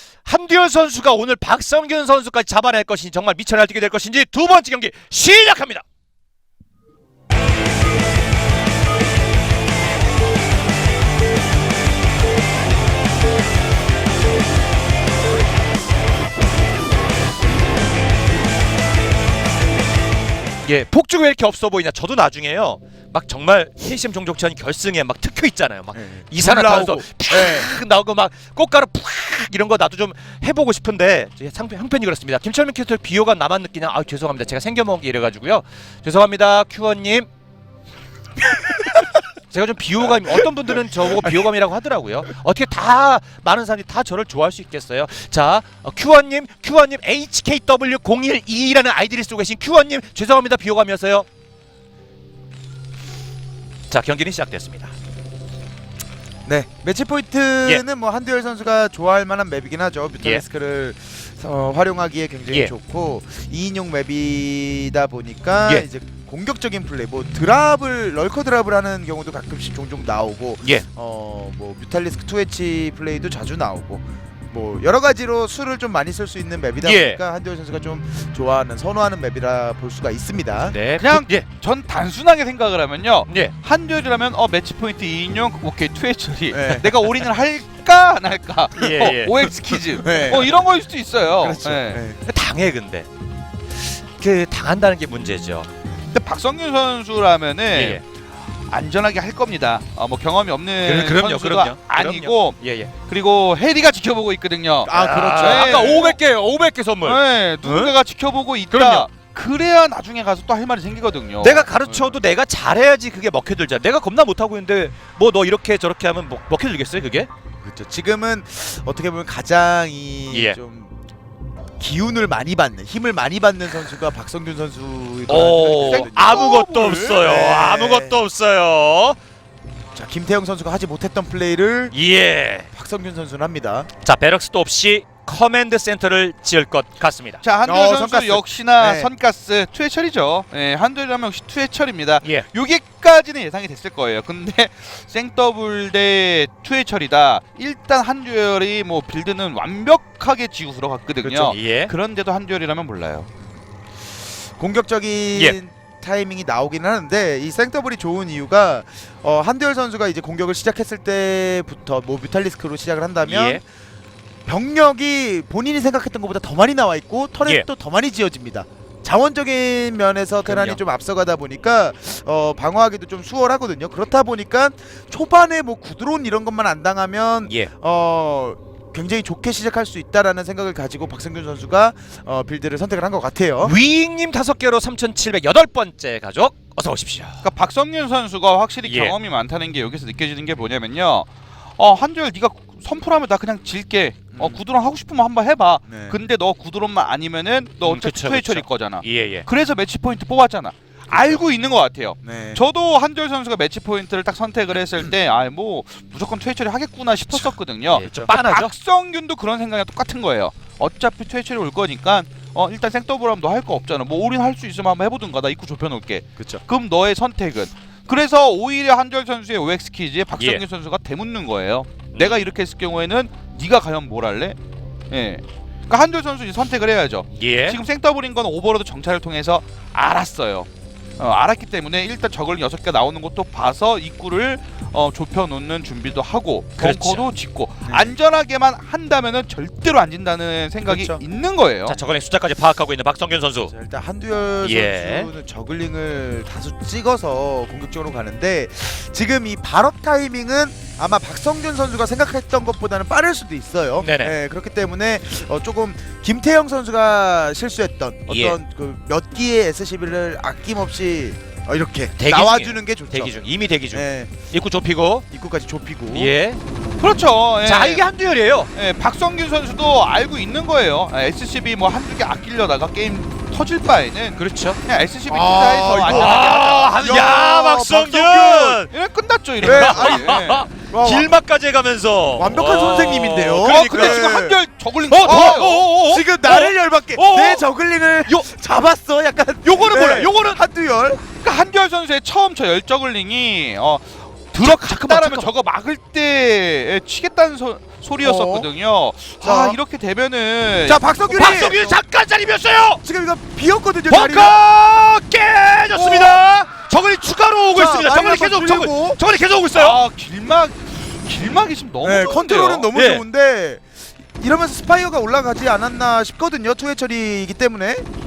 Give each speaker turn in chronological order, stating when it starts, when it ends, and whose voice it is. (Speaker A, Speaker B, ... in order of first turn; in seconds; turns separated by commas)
Speaker A: 0.2-5.8, Speaker A: 20.6-37.3, Speaker B: 25.9-27.7, Speaker A: 39.5-51.3, Speaker A: 53.9-54.9, Speaker B: 56.5-80.8, Speaker A: 76.8-77.2, Speaker A: 80.7-81.5, Speaker C: 81.0-92.0, Speaker A: 83.3-83.5, Speaker B: 86.5-86.9, Speaker A: 88.8-89.3, Speaker B: 89.7-90.6, Speaker B: 91.4-92.2, Speaker A: 92.2-93.1, Speaker A: 93.7-95.7, Speaker C: 96.1-98.1, Speaker A: 97.7-98.0, Speaker C: 98.7-106.2, Speaker A: 100.8-102.9, Speaker B: 104.9-106.1, Speaker A: 104.9-107.9, Speaker C: 107.0-111.7, Speaker A: 108.7-109.1, Speaker A: 111.4-117.3, Speaker B: 111.8-112.2, Speaker B: 117.6-120.9, Speaker A: 120.3-120.6, Speaker B: 121.8-128.2, Speaker A: 125.3-129.2, Speaker C: 125.8-127.1, Speaker B: 129.9-131.9, Speaker A: 131.9-132.7, Speaker B: 132.7-133.9, Speaker A: 134.0-137.4, Speaker C: 137.4-153.3, Speaker B: 137.6-139.1, Speaker A: 151.3-151.9, Speaker B: 154.6-163.6, Speaker A: 163.2-163.6, Speaker B: 164.4-183.7, Speaker A: 170.4-170.8, Speaker A: 183.6-187.4, Speaker C: 187.4-224.6, Speaker A: 188.8-189.2, Speaker B: 194.3-194.6, Speaker B: 195.9-196.2, Speaker A: 197.8-199.4, Speaker B: 201.1-201.4, Speaker B: 202.2-202.6, Speaker A: 207.9-208.7, Speaker A: 220.3-220.6, Speaker A: 222.1-222.4, Speaker C: 225.1-230.7, Speaker A: 227.3-227.8, Speaker C: 231.2-242.0, Speaker A: 236.8-237.3, Speaker B: 237.8-238.2, Speaker B: 240.8-241.2, Speaker A: 241.8-243.7, Speaker B: 243.7-263.4, Speaker A: 244.6-245.3, Speaker A: 254.0-254.3, Speaker A: 258.3-258.6, Speaker A: 262.1-265.2, Speaker B: 263.9-264.3, Speaker B: 265.3-266.3, Speaker A: 266.1-266.6, Speaker C: 267.0-268.1, Speaker A: 267.6-268.7, Speaker C: 268.7-277.0, Speaker A: 274.4-274.8, Speaker B: 275.3-278.8, Speaker A: 275.9-278.9, Speaker C: 278.9-280.6, Speaker B: 279.6-281.3, Speaker A: 279.6-284.5, Speaker B: 282.3-284.6, Speaker C: 283.6-286.6, Speaker A: 285.0-287.6, Speaker B: 285.2-291.2, Speaker C: 287.2-287.6, Speaker C: 289.6-290.6, Speaker A: 290.0-290.2, Speaker C: 291.2-301.8, Speaker A: 294.6-295.5, Speaker B: 298.2-298.7, Speaker B: 299.4-299.8, Speaker B: 300.9-302.0, Speaker A: 301.3-303.0, Speaker B: 303.0-304.6, Speaker A: 304.1-310.0, Speaker C: 305.9-306.4, Speaker B: 307.7-309.2, Speaker C: 309.7-312.9, Speaker B: 312.0-318.1, Speaker A: 312.9-313.2